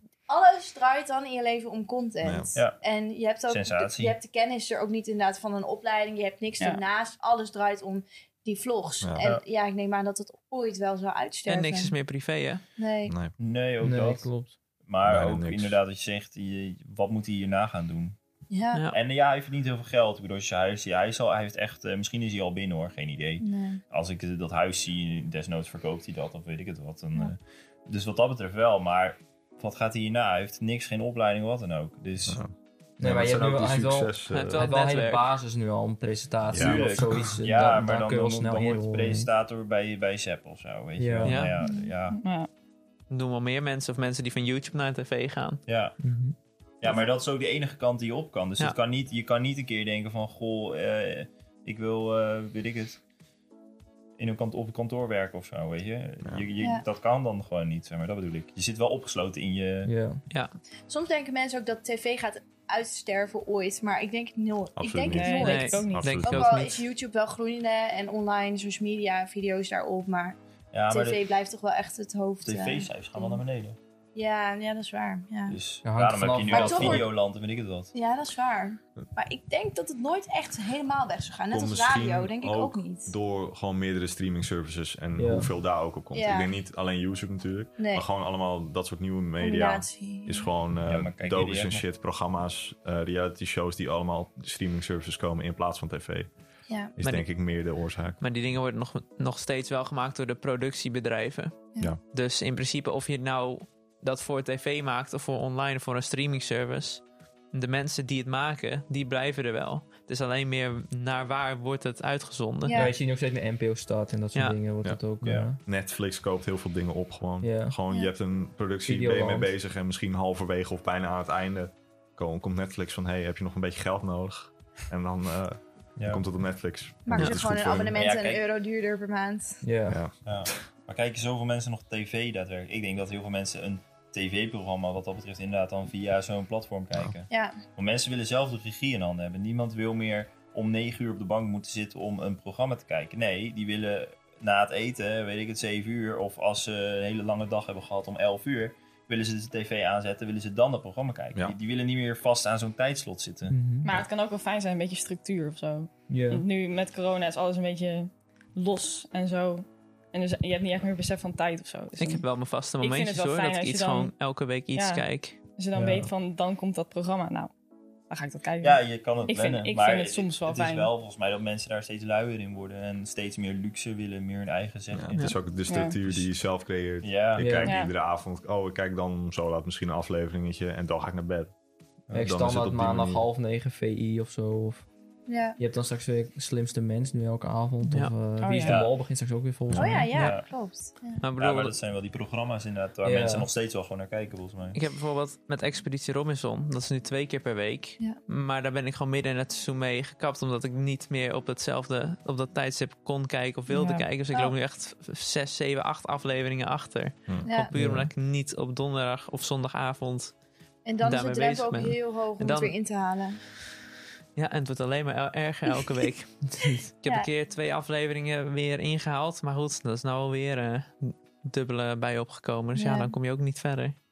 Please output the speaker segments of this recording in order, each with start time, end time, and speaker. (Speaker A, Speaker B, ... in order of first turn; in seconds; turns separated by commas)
Speaker A: 0.3-11.9, Speaker B: 2.2-2.5, Speaker C: 2.5-2.8, Speaker C: 3.5-4.2, Speaker D: 11.5-12.6, Speaker A: 12.8-13.2, Speaker B: 13.1-13.3, Speaker C: 13.3-14.3, Speaker E: 13.8-14.6, Speaker C: 14.8-18.2, Speaker B: 15.0-15.8, Speaker A: 18.5-18.8, Speaker C: 18.9-32.4, Speaker A: 23.4-23.8, Speaker B: 32.3-34.6, Speaker E: 33.0-39.3, Speaker D: 34.3-35.3, Speaker B: 36.5-37.4, Speaker C: 36.5-42.2, Speaker E: 41.0-41.4, Speaker D: 41.2-41.6, Speaker A: 41.6-41.9, Speaker F: 42.2-42.5, Speaker D: 43.1-45.6, Speaker C: 45.6-46.0, Speaker E: 46.0-46.4, Speaker C: 46.8-53.0, Speaker C: 54.2-59.9, Speaker A: 56.6-56.8, Speaker E: 59.8-60.2, Speaker D: 60.3-60.5, Speaker A: 60.9-70.4, Speaker B: 64.8-66.4, Speaker F: 65.1-66.2, Speaker D: 65.4-66.8, Speaker C: 70.7-71.2, Speaker A: 70.9-73.4, Speaker C: 72.4-73.8, Speaker A: 74.1-75.6, Speaker C: 75.5-77.9, Speaker E: 75.8-77.1, Speaker A: 76.5-77.1, Speaker A: 77.9-83.1, Speaker B: 81.5-96.3, Speaker E: 85.2-85.5, Speaker A: 86.1-86.5, Speaker A: 87.8-88.0, Speaker A: 89.4-90.5, Speaker C: 90.8-91.8, Speaker B: 96.9-98.2, Speaker D: 97.0-112.8, Speaker A: 112.6-112.9, Speaker E: 112.7-115.6, Speaker B: 114.8-128.0, Speaker C: 115.2-115.5, Speaker E: 117.4-117.8, Speaker E: 118.8-119.5, Speaker C: 126.0-126.2, Speaker A: 127.0-129.6, Speaker C: 127.9-128.4, Speaker E: 129.6-130.0, Speaker B: 129.9-130.7, Speaker C: 130.2-153.7, Speaker A: 137.3-137.6, Speaker E: 153.5-153.9, Speaker F: 153.8-167.5, Speaker E: 156.1-156.4, Speaker D: 162.0-165.4, Speaker B: 165.7-166.1, Speaker F: 168.1-170.9, Speaker C: 168.6-176.3, Speaker B: 174.9-181.5, Speaker F: 175.7-176.0, Speaker C: 177.0-177.7, Speaker E: 177.4-177.7, Speaker F: 177.6-177.9, Speaker B: 182.1-183.2, Speaker E: 182.1-184.8, Speaker A: 185.3-185.6, Speaker E: 185.6-190.3, Speaker D: 187.8-188.1, Speaker F: 188.4-188.8, Speaker C: 188.5-189.0, Speaker B: 189.7-190.1, Speaker A: 189.8-191.2, Speaker C: 190.1-190.5, Speaker D: 191.2-191.8, Speaker C: 191.3-194.8, Speaker E: 193.0-193.5, Speaker D: 194.7-210.4, Speaker A: 203.7-204.5, Speaker E: 207.7-208.1, Speaker A: 210.8-213.4, Speaker D: 211.0-212.7, Speaker D: 214.3-223.9, Speaker A: 222.8-223.1